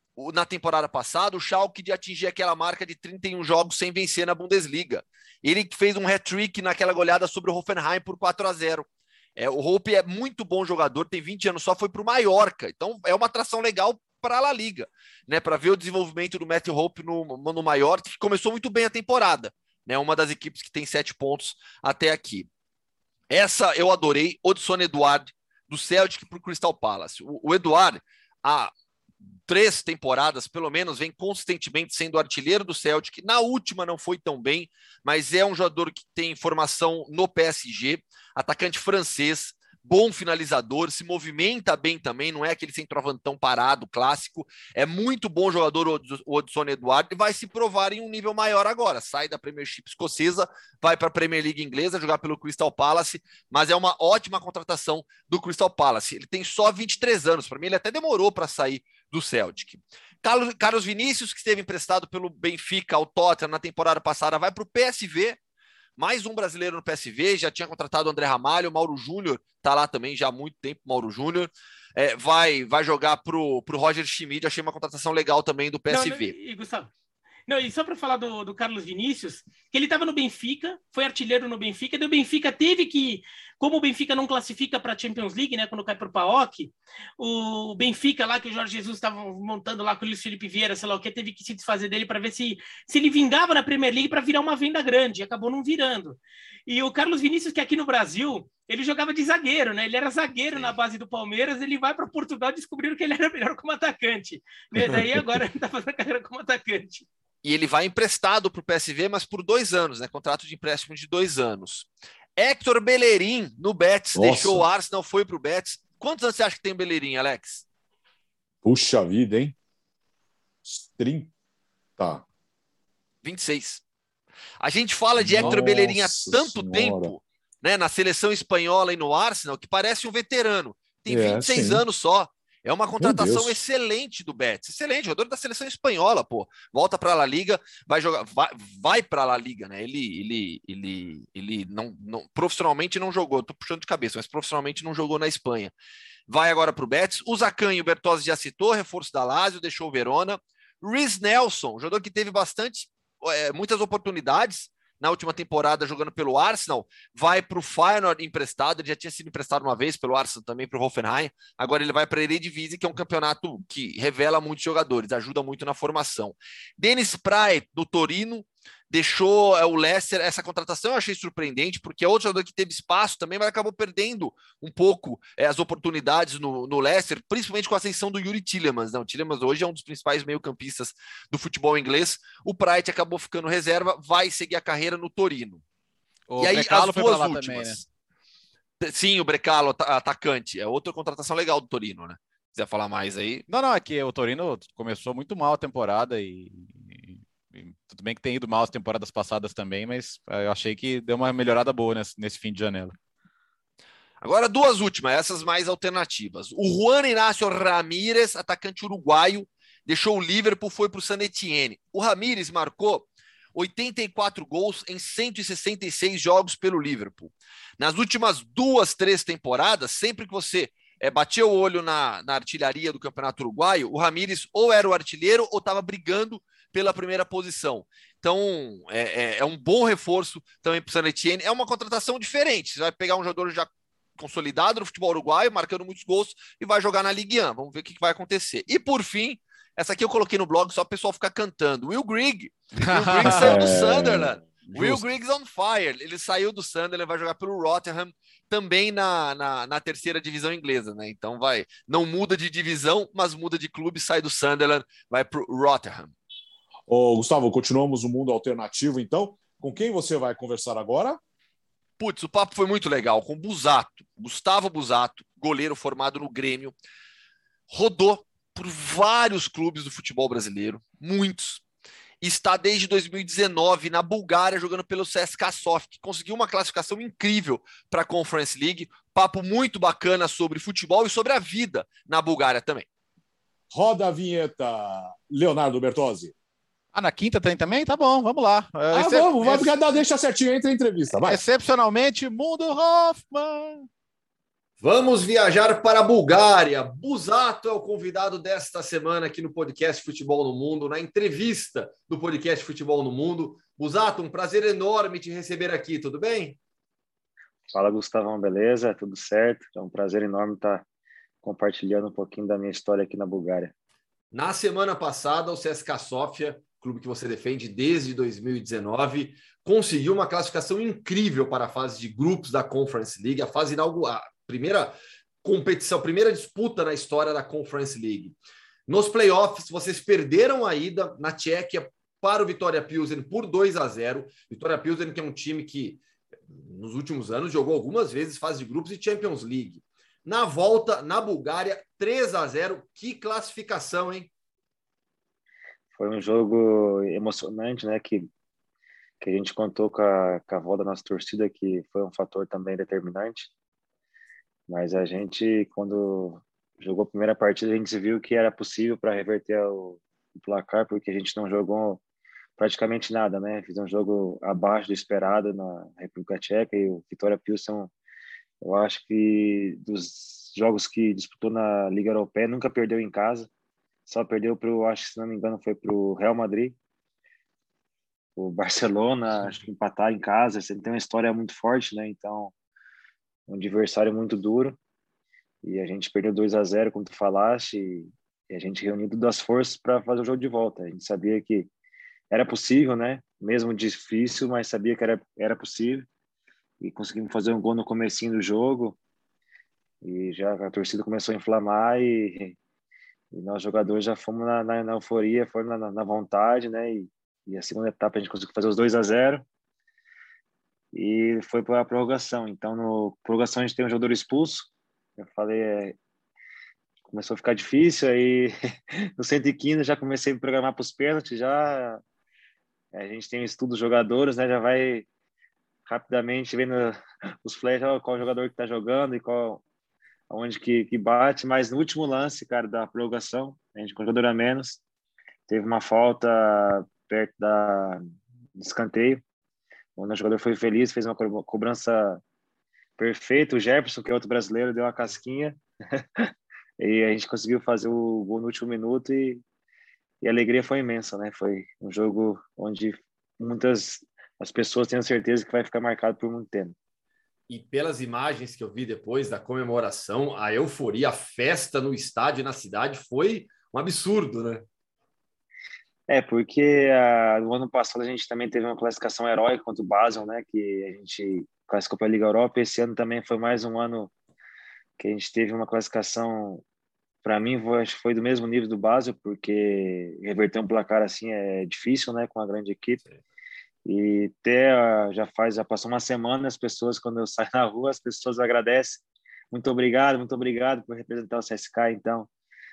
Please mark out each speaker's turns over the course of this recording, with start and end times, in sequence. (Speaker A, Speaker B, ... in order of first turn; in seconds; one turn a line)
Speaker A: 0.2-22.5
Speaker A: 23.3-28.7
Speaker A: 29.5-65.4
Speaker A: 66.0-76.3
Speaker B: 75.9-76.9
Speaker B: 77.5-107.1
Speaker A: 107.4-117.7
Speaker C: 114.2-114.7
Speaker C: 118.6-119.5
Speaker C: 120.7-121.3
Speaker C: 122.0-122.2
Speaker A: 123.2-123.8
Speaker A: 124.6-145.7
Speaker C: 125.2-127.1
Speaker C: 131.1-131.9
Speaker C: 133.0-133.6
Speaker A: 146.3-185.6
Speaker D: 186.3-187.8
Speaker A: 186.4-187.9
Speaker A: 188.8-193.4
Speaker D: 193.5-202.9
Speaker A: 204.2-256.1
Speaker D: 242.8-243.7
Speaker C: 243.2-245.1
Speaker C: 256.9-261.2
Speaker A: 262.0-266.7
Speaker A: 267.7-271.6
Speaker A: 272.2-282.9
Speaker C: 283.7-286.3
Speaker D: 286.9-289.8
Speaker C: 288.9-291.4
Speaker D: 291.2-293.9
Speaker A: 294.8-306.6
Speaker E: 307.7-310.9
Speaker E: 311.4-313.7
Speaker A: 314.3-328.4
Speaker A: 328.9-344.3
Speaker E: 346.0-348.3
Speaker E: 349.2-353.5
Speaker E: 354.7-362.0
Speaker E: 362.6-367.9
Speaker E: 368.6-373.5
Speaker E: 374.1-376.8
Speaker E: 378.4-382.5
Speaker E: 383.5-384.8
Speaker E: 385.6-391.7
Speaker E: 392.3-396.1
Speaker E: 396.8-399.0
Speaker E: 400.0-402.6
Speaker E: 403.3-409.4
Speaker E: 410.9-416.0
Speaker E: 417.1-418.5
Speaker E: 419.2-422.0
Speaker E: 422.9-425.1
Speaker E: 425.9-429.6
Speaker E: 430.3-434.8
Speaker E: 435.5-438.0
Speaker E: 438.6-439.2
Speaker E: 440.0-442.2
Speaker E: 443.0-445.6
Speaker E: 446.8-449.4
Speaker E: 450.2-456.8
Speaker A: 457.5-464.7
Speaker E: 466.1-474.1
Speaker E: 475.0-476.6
Speaker E: 477.2-483.0
Speaker E: 483.9-492.3